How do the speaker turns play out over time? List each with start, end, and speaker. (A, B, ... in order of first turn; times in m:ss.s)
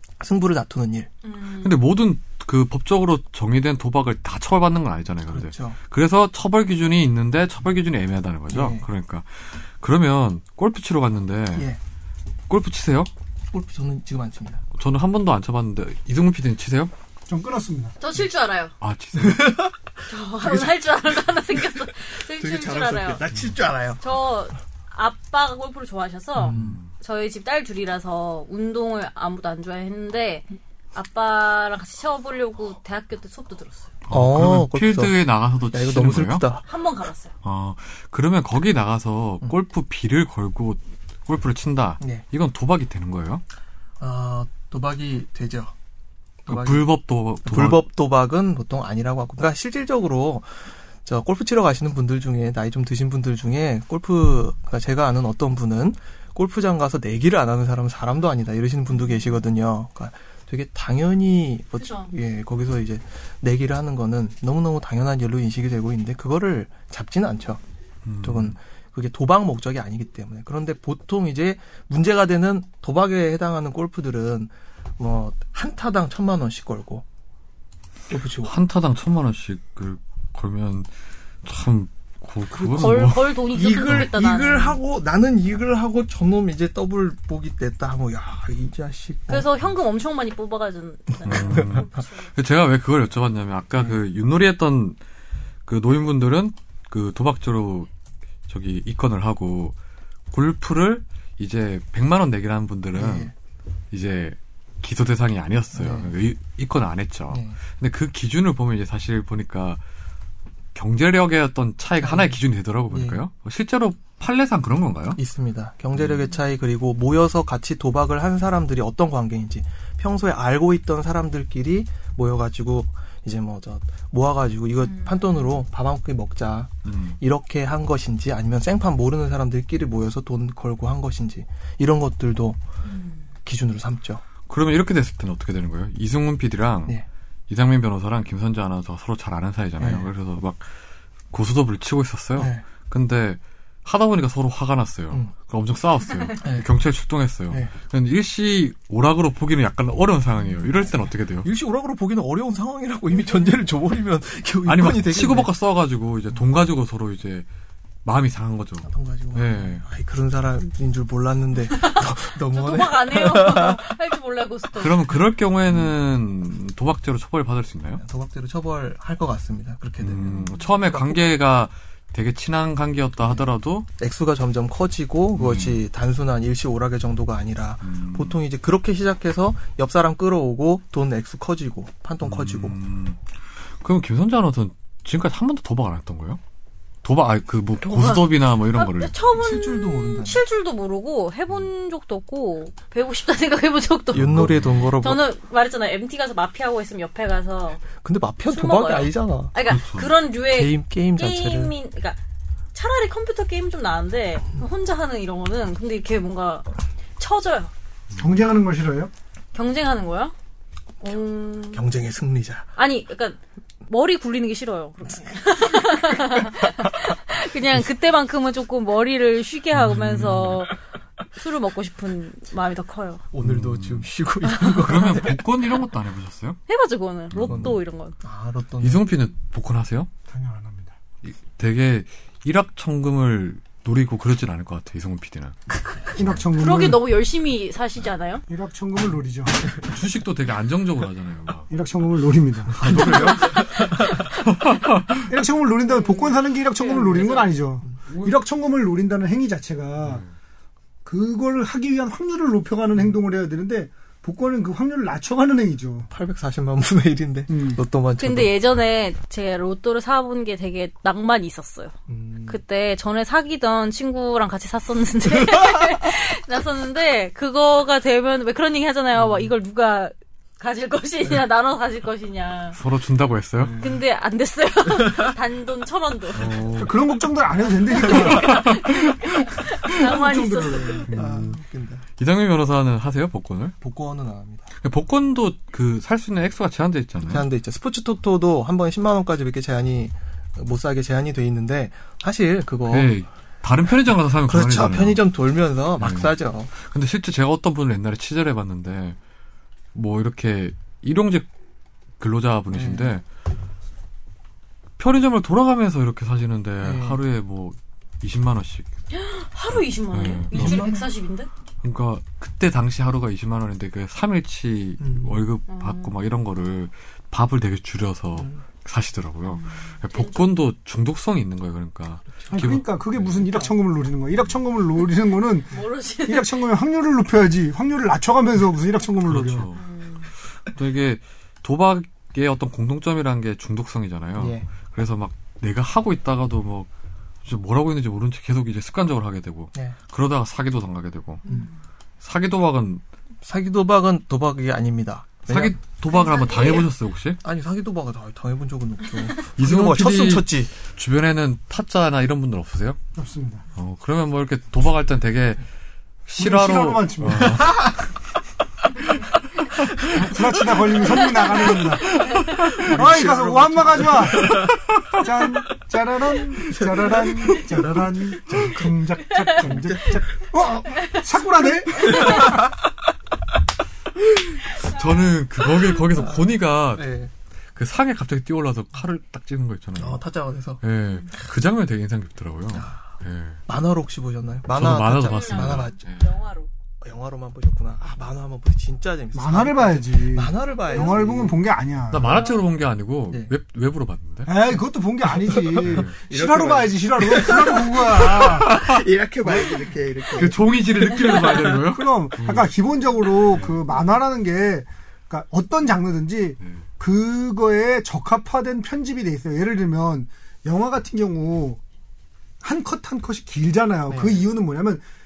0:00.2-0:01.1 A
0:01.2-0:01.8 B
0:01.6-0:11.7 C
0:05.3-0:05.8 A
0:08.5-0:08.9 A
0:12.5-0:13.1 C
0:13.5-0:14.6 A
0:14.7-0:16.9 C
0:17.3-0:18.0 D
0:18.0-0:18.7 B
0:18.8-0:19.7 C
0:19.2-0:19.8 A
0:20.1-0:23.2 B
0:20.4-0:20.9 A
0:22.3-0:24.0 A
0:24.0-0:33.9 B
0:26.4-0:26.8 A
0:26.5-0:26.9 C
0:34.1-0:36.5 C
0:34.1-0:35.1 A
0:35.7-0:36.6 A
0:36.7-0:37.3 B
0:37.4-0:43.4 C
0:44.0-0:45.7 A
0:46.4-1:07.6 A
0:46.5-0:47.8 C
1:01.8-1:02.1 B
1:08.0-1:08.6 C
1:08.2-1:17.0 A
1:18.1-1:18.6 A
1:18.4-1:20.9 C
1:21.4-1:24.1 C
1:22.5-1:29.5 A
1:22.7-1:24.8 B
1:29.3-1:32.3 B
1:31.2-1:31.9 A
1:31.2-1:35.0 C
1:35.6-1:37.9 C
1:38.5-1:39.7 C
1:40.3-1:43.3 C
1:42.9-1:43.3 A
1:43.9-1:49.8 C
1:45.7-1:46.1 A
1:47.3-1:47.6 A
1:50.7-1:55.2 C
1:52.0-1:52.4 A
1:52.9-1:53.2 A
1:55.2-2:12.6 A
2:04.9-2:05.5 B
2:06.8-2:07.2 C
2:12.8-2:13.2 B
2:13.4-2:14.2 A
2:14.5-2:17.0 C
2:17.5-2:20.7 C
2:19.8-2:20.1 A
2:21.3-2:31.5 C
2:22.4-2:22.6 A
2:26.4-2:26.7 A
2:31.4-2:35.5 A
2:34.6-2:37.4 C
2:38.0-2:39.8 C
2:38.8-2:43.8 A
2:41.7-2:45.1 B
2:44.8-2:48.0 C
2:48.0-2:51.2 A
2:50.0-2:53.9 C
2:50.3-2:50.6 B
2:54.0-3:02.8 A
2:55.3-2:55.8 C
2:57.8-2:58.4 C
3:02.2-3:03.2 C
3:03.8-3:06.4 C
3:07.0-3:09.1 C
3:07.8-3:17.8 B
3:09.3-3:10.4 A
3:14.1-3:15.3 A
3:14.1-3:15.0 C
3:18.0-3:19.6 A
3:18.5-3:22.2 B
3:19.6-3:20.1 C
3:20.5-3:21.7 A
3:22.7-3:27.7 B
3:28.1-3:28.4 C
3:28.2-3:29.1 D
3:29.5-3:30.3 B
3:31.0-3:31.8 B
3:31.7-3:32.6 A
3:32.8-3:40.8 B
3:36.4-3:36.8 A
3:39.7-3:40.6 C
3:41.3-3:43.2 B
3:43.3-3:45.4 A
3:43.4-3:44.1 C
3:44.5-3:44.9 B
3:44.7-3:46.6 C
3:46.7-3:48.2 B
3:47.3-3:47.8 C
3:47.4-3:49.1 A
3:48.8-3:50.1 C
3:50.3-3:50.9 D
3:51.2-3:55.6 C
3:56.1-3:57.0 D
3:56.5-3:58.4 B
3:58.5-3:59.6 D
3:59.8-4:01.7 C
4:01.7-4:03.3 D
4:02.8-4:05.3 C
4:02.8-4:04.2 A
4:02.9-4:04.3 B
4:05.3-4:10.2 D
4:05.9-4:07.5 B
4:06.9-4:07.2 A
4:08.1-4:08.4 C
4:10.0-4:10.3 C
4:11.0-4:16.1 D
4:16.1-4:18.5 A
4:17.5-4:17.8 D
4:18.2-4:21.9 B
4:22.1-4:22.6 A
4:22.5-4:32.8 B
4:25.4-4:25.8 A
4:29.2-4:29.5 A
4:32.7-4:33.8 C
4:33.8-4:36.7 B
4:36.3-4:37.1 C
4:36.7-4:38.9 D
4:37.9-4:41.1 B
4:38.0-4:38.3 A
4:38.1-4:39.0 C
4:39.7-4:41.3 D
4:41.1-4:41.6 C
4:41.1-4:42.0 A
4:42.2-4:43.8 C
4:43.8-4:44.7 A
4:44.8-4:47.4 C
4:47.2-4:53.2 A
4:52.9-4:55.2 C
4:54.5-4:56.7 A
4:56.0-4:59.2 C
4:59.9-5:01.5 C
5:02.2-5:03.2 C
5:02.7-5:03.1 A
5:05.0-5:08.9 C
5:06.8-5:07.2 A
5:09.1-5:11.5 B
5:10.1-5:10.9 C
5:10.5-5:11.1 A
5:11.8-5:23.7 C
5:15.0-5:15.4 A
5:15.7-5:16.1 B
5:18.4-5:18.6 A
5:19.5-5:20.5 B
5:22.5-5:29.7 D
5:25.7-5:26.6 B
5:29.2-5:29.8 C
5:29.7-5:30.3 B
5:30.6-5:36.9 C
5:34.4-5:34.7 A
5:37.4-5:41.4 C
5:41.4-5:41.8 B
5:42.2-5:43.0 C
5:43.4-5:45.8 A
5:45.5-5:47.4 C
5:46.1-5:46.9 B
5:47.4-5:50.7 A
5:49.6-5:53.0 C
5:53.2-5:53.6 D
5:53.8-5:55.6 C
5:56.2-5:57.9 C
5:56.4-5:57.9 D
5:57.6-5:57.9 A
6:00.0-6:00.3 A
6:00.0-6:12.6 D
6:00.9-6:01.7 A
6:02.2-6:02.6 B
6:02.3-6:04.8 A
6:02.4-6:03.0 C
6:06.6-6:09.0 A
6:09.5-6:10.2 A
6:10.9-6:11.2 B
6:12.0-6:12.6 B
6:12.0-6:12.9 A
6:14.7-6:17.1 C
6:16.1-6:17.3 A
6:17.8-6:20.2 C
6:20.0-6:20.8 A
6:20.8-6:23.6 C
6:21.1-6:21.3 B
6:22.7-6:23.2 A
6:23.7-6:26.0 A
6:24.7-6:26.2 C
6:25.3-6:26.7 B
6:27.0-6:31.6 A
6:29.3-6:32.5 D
6:32.1-6:34.6 C
6:34.5-6:38.8 D
6:35.3-6:41.8 A
6:35.8-6:36.1 C
6:38.7-6:39.0 C
6:40.3-6:42.7 C
6:41.2-6:51.8 D
6:43.5-6:43.8 C
6:52.6-6:55.0 D
6:54.1-6:54.5 A